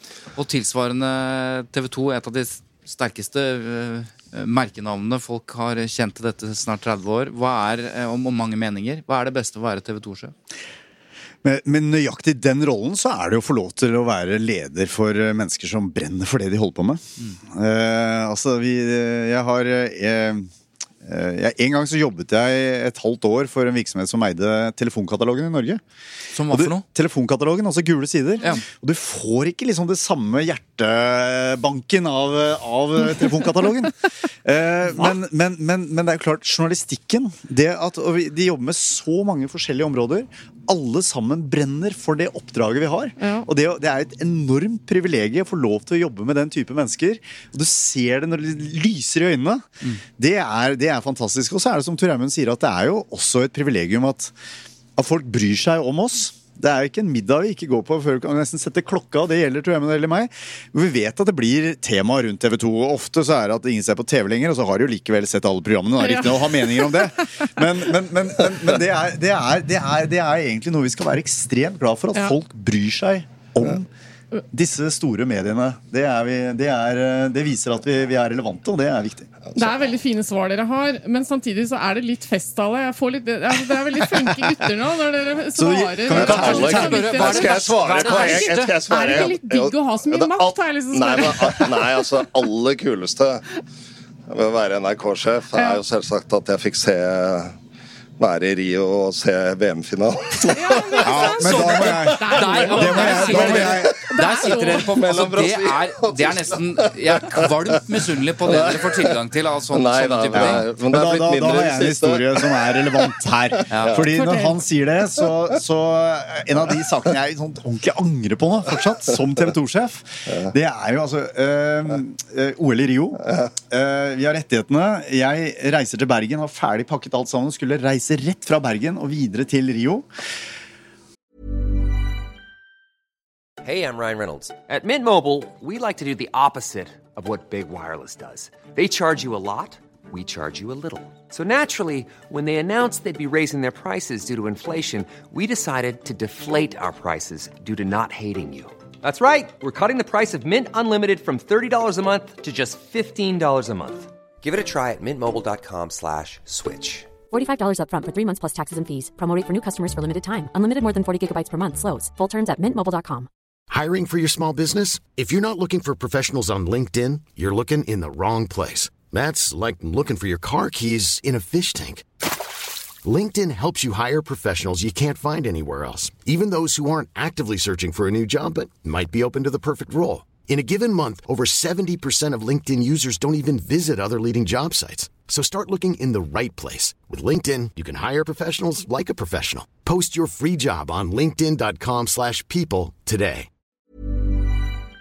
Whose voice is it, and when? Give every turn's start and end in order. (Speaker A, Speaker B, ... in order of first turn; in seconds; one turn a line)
Speaker A: 0.3-10.3
Speaker B: 11.4-20.5
Speaker B: 21.0-25.8
Speaker A: 26.3-26.8
Speaker B: 26.5-49.6
Speaker C: 43.2-43.5
Speaker B: 50.2-54.3
Speaker B: 55.0-73.9
Speaker C: 66.0-67.0
Speaker B: 74.5-79.3
Speaker C: 79.5-92.0
Speaker B: 85.5-87.2
Speaker D: 86.1-93.5
Speaker A: 86.1-88.8
Speaker D: 94.3-97.5
Speaker C: 95.5-95.8
Speaker D: 98.2-103.9
Speaker C: 100.5-104.9
Speaker B: 101.0-104.0
Speaker A: 101.4-110.6
Speaker D: 104.7-107.5
Speaker D: 108.5-109.1
Speaker D: 109.7-112.8
Speaker B: 110.3-130.1
Speaker A: 113.7-114.0
Speaker D: 113.8-114.1
Speaker C: 114.1-114.6
Speaker E: 133.6-157.2
Speaker F: 157.3-163.3
Speaker G: 163.7-172.1
Speaker G: 173.0-193.5